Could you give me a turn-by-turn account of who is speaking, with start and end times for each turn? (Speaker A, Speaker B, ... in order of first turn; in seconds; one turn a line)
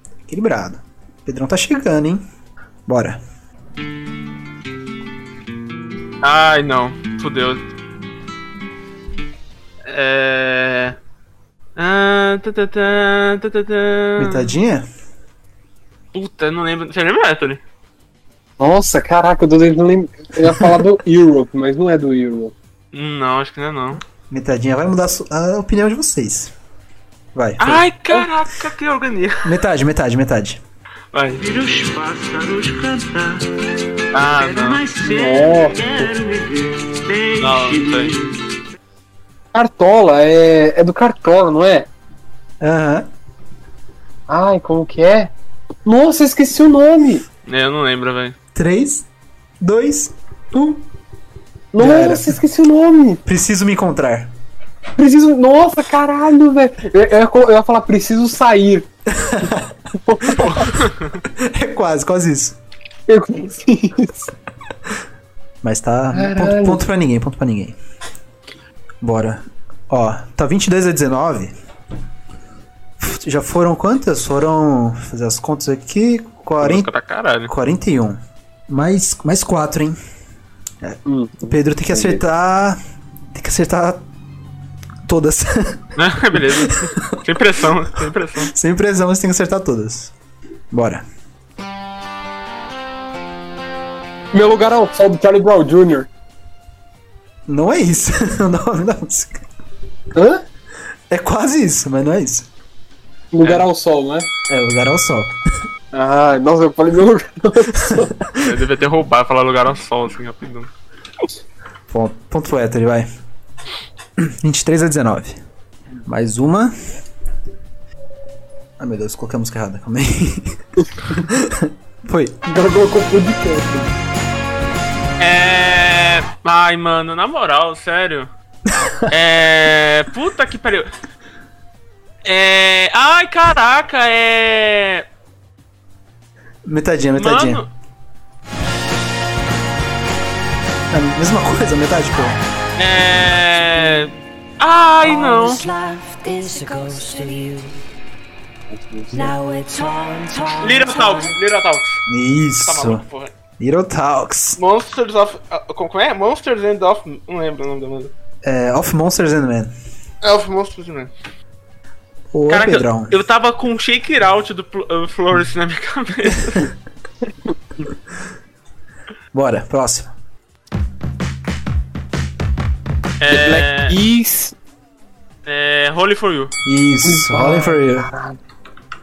Speaker A: 0.3-2.2
Speaker A: 2.9-3.2
Speaker B: 6.2-7.6
Speaker B: 9.9-11.0
Speaker B: 11.8-14.5
Speaker A: 14.2-14.8
Speaker B: 16.1-17.6
Speaker C: 18.6-22.5
Speaker B: 22.9-24.0
Speaker A: 24.3-26.5
Speaker A: 27.3-27.9
Speaker B: 27.6-29.5
Speaker A: 29.4-30.6
Speaker B: 31.1-31.4
Speaker D: 31.4-33.5
Speaker B: 34.1-34.8
Speaker D: 34.3-38.4
Speaker C: 35.0-36.1
Speaker B: 37.4-38.1
Speaker C: 39.5-41.9
Speaker A: 42.6-43.1
Speaker C: 44.3-45.3
Speaker C: 45.8-47.2
Speaker B: 47.5-48.3
Speaker A: 48.5-49.1
Speaker A: 49.6-50.8
Speaker C: 51.7-53.2
Speaker A: 51.8-52.4
Speaker A: 53.2-54.3
Speaker C: 55.0-58.9
Speaker A: 59.1-59.7
Speaker C: 59.9-60.6
Speaker B: 60.4-61.2
Speaker A: 61.3-62.6
Speaker C: 63.1-64.3
Speaker A: 65.6-67.8
Speaker C: 66.1-66.8
Speaker A: 69.0-71.5
Speaker A: 73.0-76.9
Speaker B: 76.6-77.5
Speaker A: 77.5-80.0
Speaker A: 80.8-82.8
Speaker C: 81.0-82.2
Speaker A: 83.3-84.0
Speaker A: 85.0-85.8
Speaker B: 86.0-88.5
Speaker A: 86.3-87.2
Speaker A: 88.4-90.1
Speaker A: 90.7-91.0
Speaker C: 94.3-96.1
Speaker A: 97.5-99.4
Speaker C: 100.1-100.4
Speaker A: 101.1-102.5
Speaker C: 103.3-104.3
Speaker A: 104.5-105.3
Speaker C: 105.9-108.1
Speaker B: 108.4-110.7
Speaker A: 111.9-113.1
Speaker A: 114.2-115.4
Speaker A: 116.0-116.7
Speaker A: 118.8-120.6
Speaker A: 121.2-122.4
Speaker C: 122.5-123.9
Speaker B: 125.2-128.3
Speaker B: 129.1-130.9
Speaker B: 132.2-135.0
Speaker A: 136.7-137.6
Speaker B: 137.2-137.7
Speaker A: 140.9-142.4
Speaker B: 142.8-145.6
Speaker D: 145.0-147.8
Speaker C: 148.7-149.3
Speaker D: 149.1-151.3
Speaker B: 150.6-152.0
Speaker A: 152.1-153.0
Speaker B: 152.6-153.3
Speaker A: 153.6-154.6
Speaker B: 154.6-158.1
Speaker A: 158.4-159.7
Speaker B: 160.2-161.1
Speaker A: 162.3-163.2
Speaker B: 162.5-166.7
Speaker A: 169.3-170.1
Speaker B: 173.2-173.9
Speaker C: 173.3-174.5
Speaker B: 175.4-176.5
Speaker A: 176.6-178.1
Speaker C: 177.0-178.4